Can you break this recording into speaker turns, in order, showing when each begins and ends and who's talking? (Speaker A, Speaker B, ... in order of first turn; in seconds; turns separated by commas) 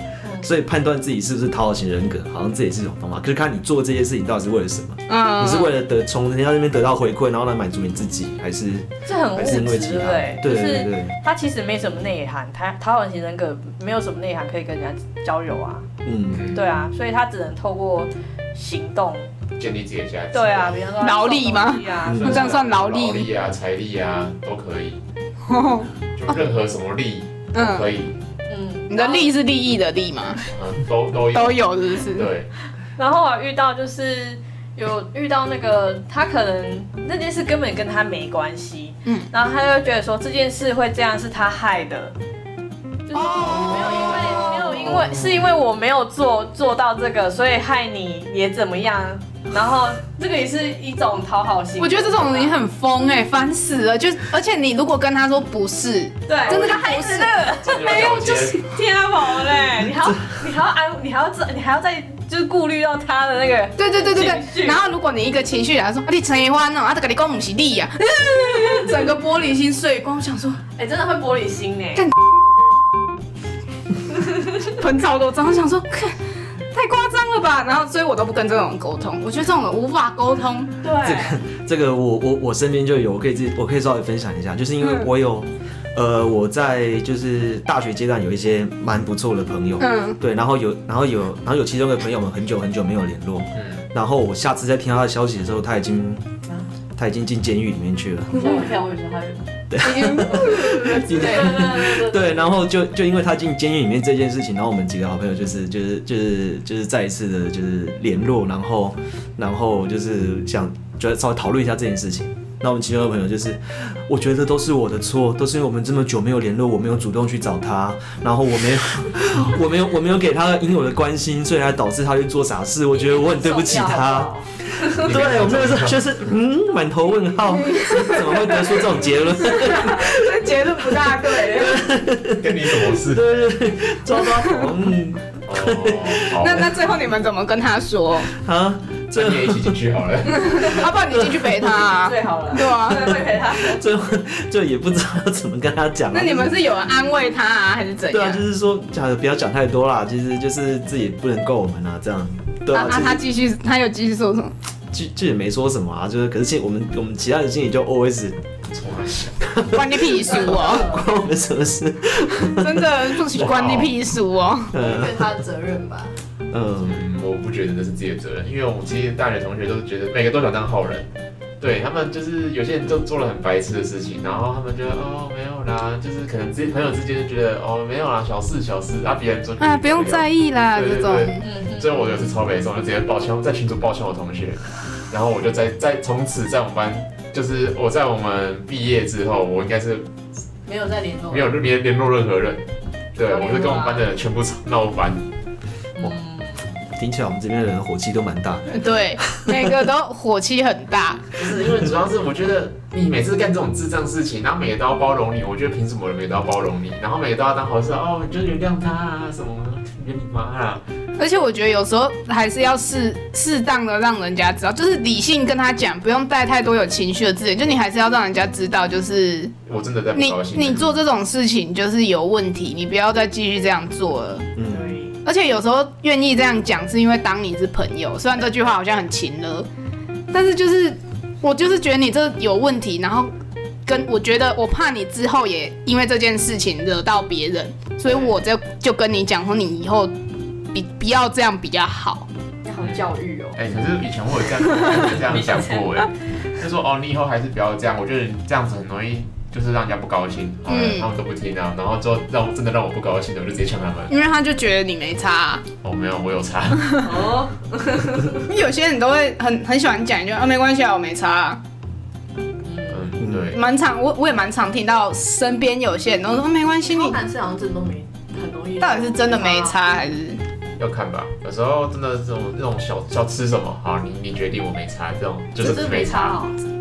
Speaker A: 0.2-0.5, Speaker B: 0.4-11.1, Speaker C: 5.1-5.7, Speaker A: 9.0-15.9, Speaker B: 16.0-16.5, Speaker D: 16.3-16.6, Speaker A: 16.5-19.3, Speaker D: 19.6-20.8, Speaker A: 20.3-22.7, Speaker C: 21.0-23.3, Speaker B: 22.1-22.4, Speaker D: 22.2-25.0, Speaker C: 25.5-26.3, Speaker D: 26.1-28.2, Speaker C: 27.5-27.9, Speaker A: 28.5-29.3, Speaker C: 28.9-30.4, Speaker D: 30.5-32.5, Speaker C: 31.3-32.3, Speaker A: 33.0-42.1, Speaker A: 43.0-52.6, Speaker C: 43.1-44.8, Speaker C: 51.8-58.6, Speaker A: 56.3-64.8, Speaker D: 57.6-58.7, Speaker C: 63.8-70.6, Speaker A: 70.7-72.1, Speaker C: 74.6-76.2, Speaker C: 76.7-80.7, Speaker A: 80.8-81.4, Speaker B: 81.0-96.2, Speaker C: 89.8-90.2, Speaker D: 93.5-93.8, Speaker B: 97.0-98.6, Speaker A: 98.3-99.4, Speaker B: 99.7-136.5, Speaker C: 99.8-101.0, Speaker A: 100.5-102.5, Speaker A: 122.9-124.5, Speaker D: 124.9-126.1, Speaker C: 127.7-128.8, Speaker C: 129.4-131.9, Speaker D: 132.3-133.3, Speaker C: 134.2-134.7, Speaker D: 135.4-136.8, Speaker C: 136.4-138.3, Speaker B: 138.3-139.8, Speaker D: 139.1-140.8, Speaker C: 140.3-143.1, Speaker B: 140.9-141.9, Speaker A: 142.0-143.8, Speaker B: 142.8-146.7, Speaker C: 146.1-148.4, Speaker B: 148.1-153.2, Speaker C: 152.7-154.5, Speaker B: 154.9-158.4, Speaker D: 158.7-159.6, Speaker B: 159.4-163.3, Speaker C: 159.7-160.9, Speaker A: 160.1-161.1, Speaker C: 162.6-164.7, Speaker D: 163.3-163.9, Speaker B: 164.7-165.3, Speaker A: 164.7-166.2, Speaker B: 166.5-167.0, Speaker D: 166.8-171.1, Speaker D: 171.6-190.1, Speaker C: 179.6-181.4, Speaker A: 181.4-182.1, Speaker A: 190.7-191.5, Speaker D: 191.3-192.6, Speaker D: 193.2-195.2, Speaker A: 193.2-194.1, Speaker A: 195.9-196.6, Speaker B: 196.9-199.7, Speaker C: 198.7-201.3, Speaker D: 201.3-210.8, Speaker C: 211.2-219.6, Speaker D: 219.7-221.0, Speaker C: 220.2-224.5, Speaker B: 224.6-224.9, Speaker A: 224.7-225.2, Speaker C: 225.2-229.7, Speaker C: 230.3-233.3, Speaker C: 233.8-240.1, Speaker A: 238.1-238.4, Speaker C: 240.7-242.3, Speaker A: 242.6-243.6, Speaker D: 243.6-254.1, Speaker A: 244.7-246.1, Speaker C: 250.7-251.1, Speaker C: 254.1-255.6, Speaker D: 255.8-257.1, Speaker A: 257.0-258.5, Speaker C: 258.4-261.6, Speaker A: 262.6-263.1, Speaker D: 262.9-263.6, Speaker B: 263.2-263.5, Speaker C: 263.5-267.2, Speaker A: 266.9-269.8, Speaker C: 268.8-270.4, Speaker D: 270.8-276.4, Speaker A: 275.5-276.6